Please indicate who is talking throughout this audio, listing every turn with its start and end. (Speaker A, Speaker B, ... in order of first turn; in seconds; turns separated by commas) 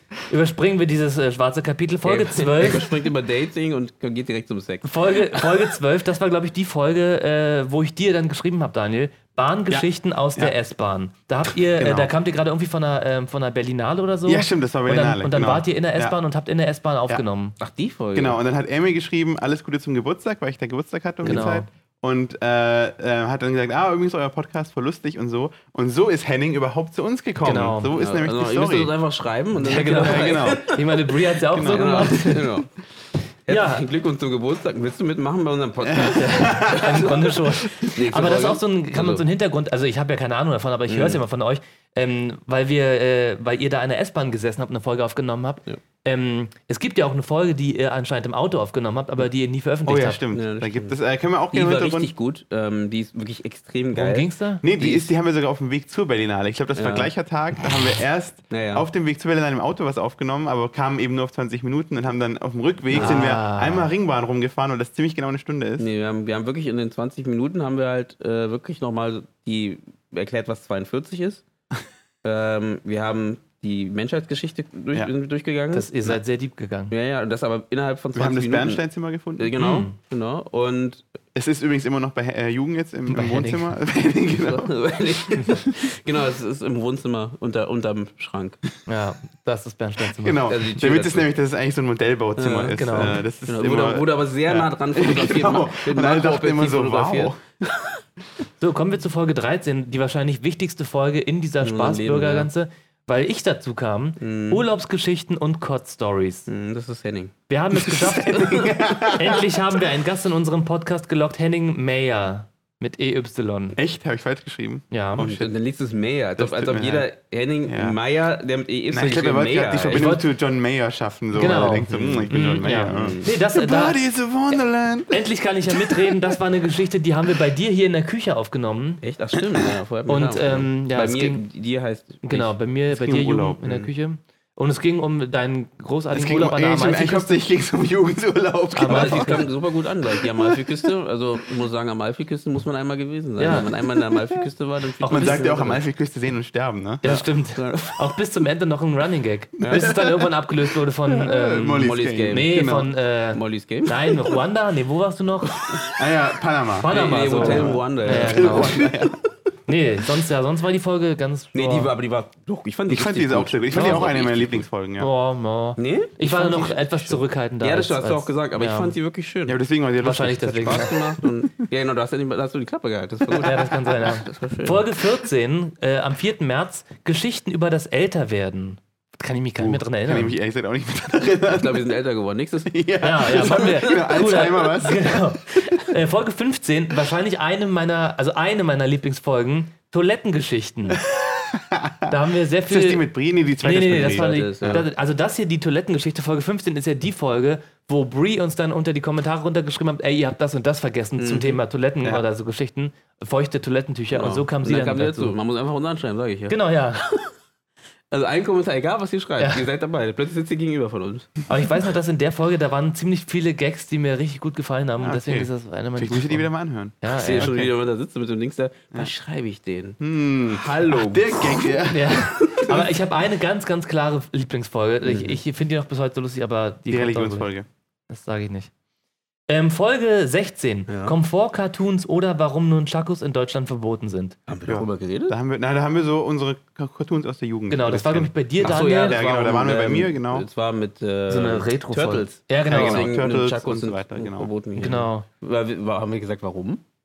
Speaker A: 0.3-2.9, Speaker B: 2.0-5.5, Speaker A: 4.8-17.6, Speaker C: 11.8-12.1, Speaker C: 14.2-16.2, Speaker B: 17.6-18.4, Speaker C: 18.1-28.9, Speaker B: 21.2-21.5, Speaker A: 21.2-21.7, Speaker A: 27.4-27.9, Speaker B: 27.9-31.1, Speaker A: 29.6-32.5, Speaker C: 29.6-30.7, Speaker C: 31.5-32.2, Speaker B: 31.6-32.7, Speaker B: 33.5-39.2, Speaker A: 33.5-33.8, Speaker C: 35.8-37.2, Speaker A: 36.1-50.2, Speaker B: 40.9-41.2, Speaker C: 49.9-52.1, Speaker B: 50.3-51.0, Speaker B: 51.5-55.1, Speaker A: 53.9-54.6, Speaker C: 54.6-65.9, Speaker B: 56.7-57.1, Speaker B: 58.5-58.8, Speaker B: 62.9-63.2, Speaker A: 62.9-63.9, Speaker B: 65.8-71.4, Speaker B: 72.2-75.9, Speaker A: 75.7-76.9, Speaker B: 76.9-78.8, Speaker C: 78.1-79.5, Speaker B: 79.4-81.0, Speaker A: 79.6-80.0, Speaker C: 81.3-84.7, Speaker A: 83.1-83.7, Speaker B: 84.3-88.6, Speaker C: 85.3-85.7, Speaker A: 88.8-90.4, Speaker C: 90.1-97.4, Speaker B: 90.5-91.2, Speaker B: 92.4-92.8, Speaker A: 92.7-93.2, Speaker B: 93.5-97.3, Speaker A: 98.6-106.5, Speaker B: 101.6-102.5, Speaker B: 104.2-104.6, Speaker B: 106.5-107.3, Speaker A: 107.5-113.8, Speaker C: 107.7-109.8, Speaker C: 113.8-115.5, Speaker A: 114.9-115.2, Speaker B: 115.2-120.1, Speaker C: 116.4-117.1, Speaker C: 117.7-118.0, Speaker C: 118.9-126.2, Speaker A: 119.9-120.3, Speaker A: 121.3-124.0, Speaker B: 121.9-123.3, Speaker A: 125.1-129.0, Speaker B: 129.0-132.5, Speaker A: 130.1-131.4, Speaker A: 132.2-137.3, Speaker C: 132.9-133.9, Speaker C: 136.1-139.5, Speaker A: 138.7-139.4, Speaker B: 138.9-145.8, Speaker C: 140.2-140.9, Speaker A: 143.4-143.7, Speaker C: 144.1-144.4, Speaker A: 145.0-145.5, Speaker C: 145.0-147.1, Speaker A: 147.0-155.7, Speaker B: 147.0-148.1, Speaker B: 149.6-149.8, Speaker C: 149.7-150.3, Speaker C: 151.1-152.9, Speaker B: 151.8-152.6, Speaker B: 153.3-154.1, Speaker C: 155.9-159.2, Speaker A: 156.8-158.9, Speaker B: 156.9-159.0, Speaker A: 159.7-161.9, Speaker B: 161.5-164.7, Speaker C: 162.9-165.1, Speaker A: 163.7-164.1, Speaker A: 165.0-168.9, Speaker B: 165.8-169.6, Speaker C: 169.5-171.0, Speaker A: 170.0-170.9, Speaker B: 170.6-174.9, Speaker A: 173.3-180.3, Speaker C: 179.6-181.8, Speaker B: 181.5-184.0, Speaker C: 182.7-185.2, Speaker A: 183.0-191.0, Speaker C: 191.0-192.1, Speaker A: 192.1-193.1, Speaker C: 192.7-194.8, Speaker A: 193.6-205.3, Speaker B: 193.9-194.8, Speaker B: 201.2-201.6, Speaker B: 204.1-207.3, Speaker A: 206.5-207.0, Speaker B: 208.1-211.4, Speaker A: 209.4-209.6, Speaker A: 211.5-216.5, Speaker C: 215.0-217.7, Speaker A: 217.0-217.7, Speaker B: 217.1-221.8, Speaker C: 220.0-222.1, Speaker A: 221.9-227.5, Speaker B: 222.4-222.7, Speaker B: 225.0-225.4, Speaker C: 226.9-227.7, Speaker A: 228.1-228.7, Speaker A: 229.5-234.3, Speaker B: 230.9-231.1, Speaker B: 234.5-235.3, Speaker C: 234.7-240.5, Speaker A: 237.7-239.2, Speaker B: 238.6-246.8, Speaker A: 241.3-243.1, Speaker C: 242.6-244.9, Speaker A: 244.8-245.2